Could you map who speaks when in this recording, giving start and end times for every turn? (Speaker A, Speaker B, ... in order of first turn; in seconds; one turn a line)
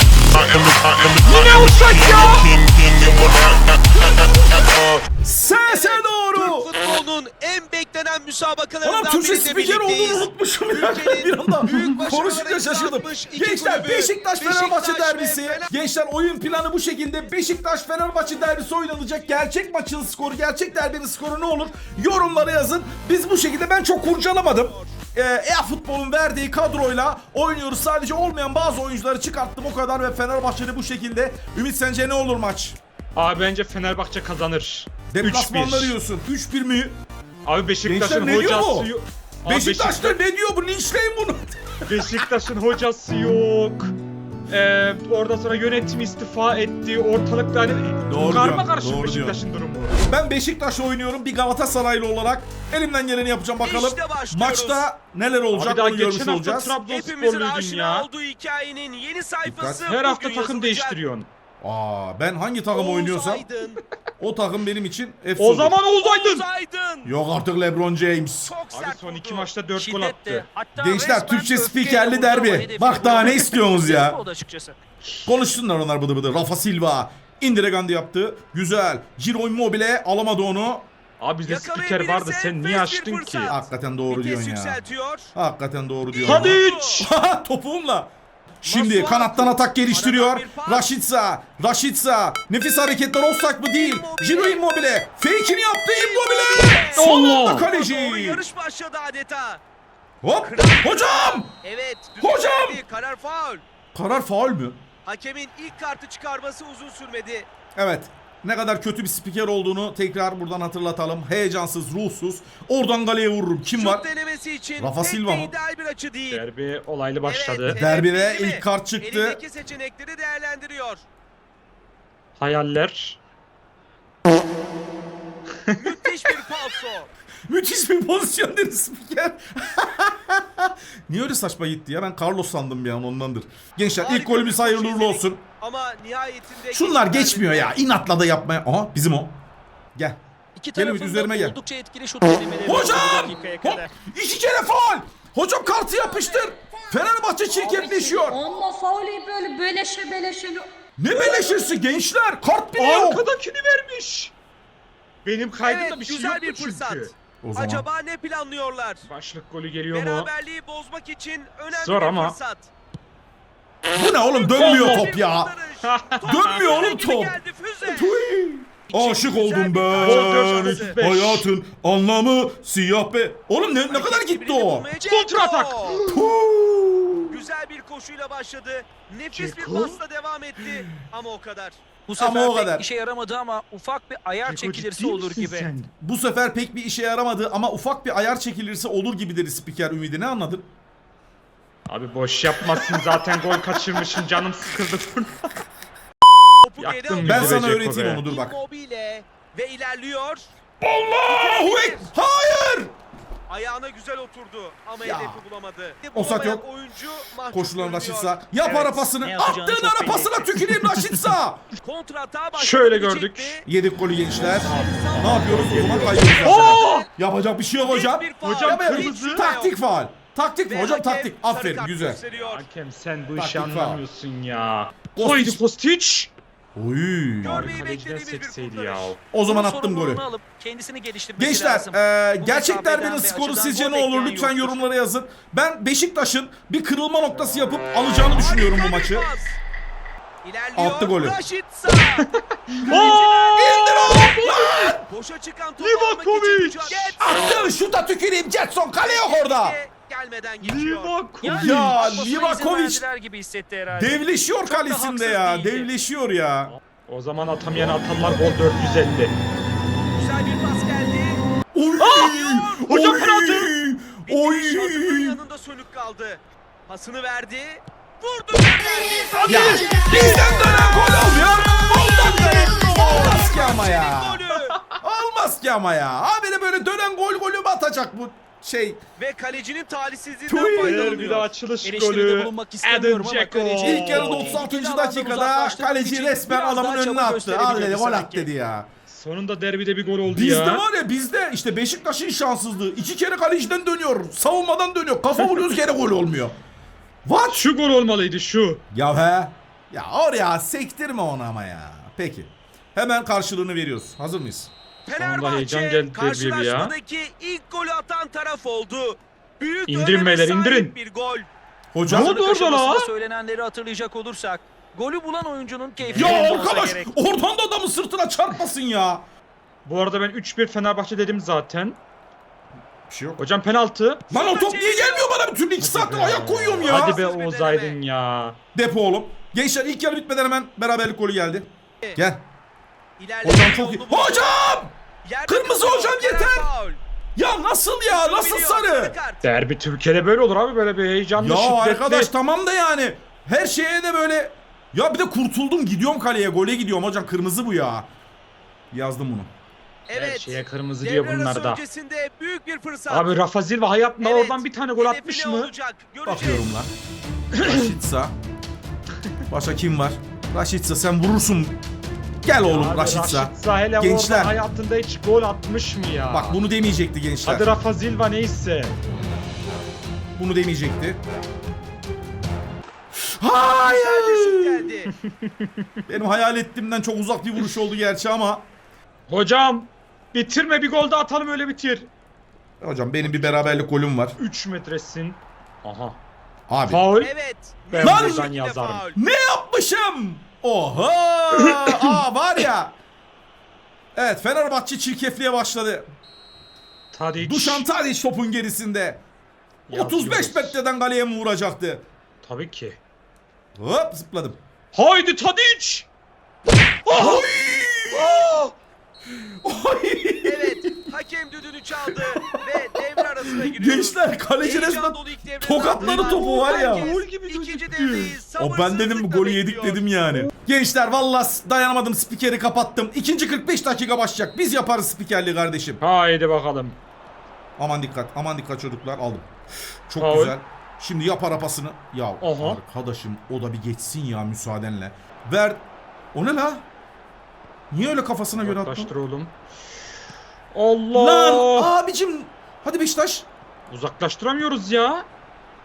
Speaker A: 0.3-3.8
Speaker B: 1.2-2.6
Speaker C: 3.9-6.7
Speaker D: 5.7-15.7
Speaker C: 8.8-32.8
Speaker D: 24.5-24.9
Speaker B: 33.1-36.0
Speaker C: 35.1-37.0
Speaker B: 37.5-40.2
Speaker C: 37.8-38.9
Speaker C: 39.5-42.0
Speaker B: 41.9-43.9
Speaker B: 44.5-50.0
Speaker C: 48.1-49.4
Speaker C: 50.0-56.8
Speaker D: 53.6-54.9
Speaker B: 55.5-58.1
Speaker D: 56.8-61.0
Speaker C: 59.5-59.9
Speaker B: 59.9-61.3
Speaker C: 61.6-63.5
Speaker D: 62.7-63.8
Speaker C: 64.2-65.8
Speaker B: 65.4-66.4
Speaker D: 66.0-67.1
Speaker C: 67.0-68.5
Speaker D: 68.5-69.6
Speaker B: 68.7-70.5
Speaker A: 69.7-74.8
Speaker C: 70.8-74.2
Speaker C: 75.2-80.9
Speaker B: 81.2-83.6
Speaker D: 81.5-85.3
Speaker C: 83.5-84.8
Speaker C: 85.3-88.1
Speaker D: 86.1-87.1
Speaker B: 86.2-87.1
Speaker C: 88.6-98.4
Speaker D: 88.7-90.9
Speaker D: 93.7-94.6
Speaker D: 96.0-99.6
Speaker B: 97.0-97.7
Speaker C: 100.2-101.5
Speaker D: 100.4-103.6
Speaker C: 102.2-102.8
Speaker C: 103.9-104.8
Speaker D: 105.0-107.5
Speaker C: 107.8-114.0
Speaker D: 113.7-116.4
Speaker C: 114.8-115.5
Speaker B: 116.3-117.8
Speaker D: 117.2-121.0
Speaker C: 117.7-119.4
Speaker B: 122.4-123.2
Speaker D: 125.8-127.1
Speaker C: 127.5-135.4
Speaker D: 134.0-137.8
Speaker C: 136.7-139.3
Speaker C: 140.0-140.2
Speaker A: 140.6-143.9
Speaker C: 140.8-141.6
Speaker C: 142.7-148.4
Speaker E: 145.9-150.7
Speaker C: 151.0-153.2
Speaker B: 152.8-154.3
Speaker B: 155.2-157.1
Speaker D: 155.6-159.0
Speaker C: 157.4-157.8
Speaker B: 159.1-160.3
Speaker D: 159.9-162.7
Speaker B: 161.7-162.3
Speaker C: 163.9-165.5
Speaker D: 164.5-168.2
Speaker B: 164.6-165.1
Speaker B: 165.9-166.4
Speaker C: 166.3-174.9
Speaker D: 168.9-171.0
Speaker B: 169.9-171.5
Speaker D: 173.9-176.0
Speaker B: 175.1-176.2
Speaker C: 176.1-177.4
Speaker D: 177.3-181.9
Speaker B: 179.3-180.0
Speaker A: 182.1-185.7
Speaker C: 182.2-182.8
Speaker B: 184.4-185.9
Speaker C: 186.0-190.7
Speaker B: 191.9-195.5
Speaker D: 196.6-200.5
Speaker B: 196.8-198.2
Speaker C: 197.2-198.6
Speaker C: 200.8-202.9
Speaker D: 201.3-202.1
Speaker D: 203.5-208.5
Speaker C: 205.0-205.4
Speaker C: 206.1-206.6
Speaker C: 207.5-211.6
Speaker A: 208.6-210.5
Speaker B: 210.7-211.2
Speaker D: 211.8-213.7
Speaker B: 212.6-213.6
Speaker C: 213.7-222.2
Speaker D: 214.3-217.1
Speaker B: 214.7-217.1
Speaker D: 217.8-219.7
Speaker B: 218.4-219.5
Speaker D: 220.7-222.6
Speaker B: 222.4-226.3
Speaker C: 223.4-224.0
Speaker C: 225.2-225.6
Speaker C: 226.8-227.7
Speaker D: 227.4-229.2
Speaker B: 227.4-229.2
Speaker C: 229.3-230.2
Speaker A: 229.5-234.8
Speaker C: 231.4-239.3
Speaker D: 238.3-239.6
Speaker D: 240.4-242.2
Speaker C: 240.8-241.4
Speaker B: 242.7-244.9
Speaker C: 242.8-245.1
Speaker D: 242.9-243.7
Speaker D: 245.1-247.3
Speaker B: 245.8-247.2
Speaker C: 247.2-249.8
Speaker D: 249.0-251.3
Speaker B: 250.6-252.2
Speaker A: 251.4-255.9
Speaker C: 251.5-253.0
Speaker C: 253.9-256.7
Speaker B: 256.7-259.4
Speaker D: 257.8-259.1
Speaker D: 260.1-261.4
Speaker C: 261.7-265.4
Speaker B: 262.0-263.8
Speaker D: 262.1-263.0
Speaker D: 264.3-274.8
Speaker B: 269.3-270.7
Speaker C: 269.5-274.4
Speaker B: 272.2-273.1
Speaker C: 275.0-279.0
Speaker D: 279.2-281.6
Speaker C: 280.5-281.2
Speaker B: 280.8-284.6
Speaker A: 281.8-288.5
Speaker C: 283.8-288.9
Speaker B: 289.1-290.9
Speaker C: 290.2-296.6
Speaker C: 297.2-297.6
Speaker B: 297.5-298.8
Speaker C: 298.9-304.7
Speaker D: 305.1-311.5
Speaker B: 305.2-306.9
Speaker B: 309.9-310.9
Speaker C: 311.9-312.4
Speaker B: 312.1-313.1
Speaker A: 312.2-317.1
Speaker B: 316.0-316.7
Speaker C: 316.2-319.2
Speaker B: 319.9-322.0
Speaker C: 323.1-323.4
Speaker B: 323.4-324.2
Speaker D: 324.3-325.3
Speaker C: 324.3-327.2
Speaker B: 325.8-328.6
Speaker D: 326.8-328.0
Speaker C: 328.7-332.4
Speaker D: 333.2-334.6
Speaker C: 333.4-334.9
Speaker D: 335.2-337.0
Speaker C: 335.5-336.7
Speaker C: 337.4-339.2
Speaker D: 338.1-339.4
Speaker B: 339.4-342.3
Speaker C: 341.4-348.1
Speaker C: 348.9-349.5
Speaker D: 350.1-353.3
Speaker B: 350.1-351.8
Speaker B: 353.1-355.7
Speaker D: 354.2-356.8
Speaker C: 356.3-356.9
Speaker B: 357.6-357.9
Speaker C: 357.6-358.4
Speaker C: 359.5-361.8
Speaker C: 362.4-364.5
Speaker B: 362.6-366.6
Speaker C: 366.3-367.7
Speaker B: 367.4-368.9
Speaker C: 370.4-371.2
Speaker C: 373.2-374.9
Speaker D: 373.8-375.1
Speaker B: 375.3-375.8
Speaker C: 376.1-378.7
Speaker B: 379.3-382.1
Speaker C: 382.8-384.4
Speaker B: 383.2-383.9
Speaker B: 384.4-386.2
Speaker C: 386.7-387.1
Speaker B: 386.9-387.3
Speaker D: 387.2-389.2
Speaker B: 387.9-389.0
Speaker C: 388.0-388.5
Speaker C: 389.1-393.0
Speaker B: 391.5-392.2
Speaker C: 394.1-396.1
Speaker B: 397.1-397.9
Speaker C: 397.4-399.2
Speaker B: 399.9-400.8
Speaker C: 399.9-402.1
Speaker B: 402.4-403.0
Speaker C: 403.8-404.6
Speaker B: 404.9-406.1
Speaker B: 407.1-407.5
Speaker C: 407.1-408.6
Speaker B: 408.1-408.8
Speaker C: 409.3-411.1
Speaker D: 410.4-420.1
Speaker C: 412.1-417.1
Speaker B: 416.0-418.4
Speaker C: 418.6-426.0
Speaker B: 426.0-427.0
Speaker C: 427.8-429.5
Speaker C: 430.1-435.8
Speaker B: 430.2-430.6
Speaker B: 432.4-432.8
Speaker C: 436.3-436.9
Speaker C: 437.9-439.1
Speaker B: 438.5-439.5
Speaker B: 440.7-441.9
Speaker C: 441.1-443.5
Speaker B: 443.9-445.3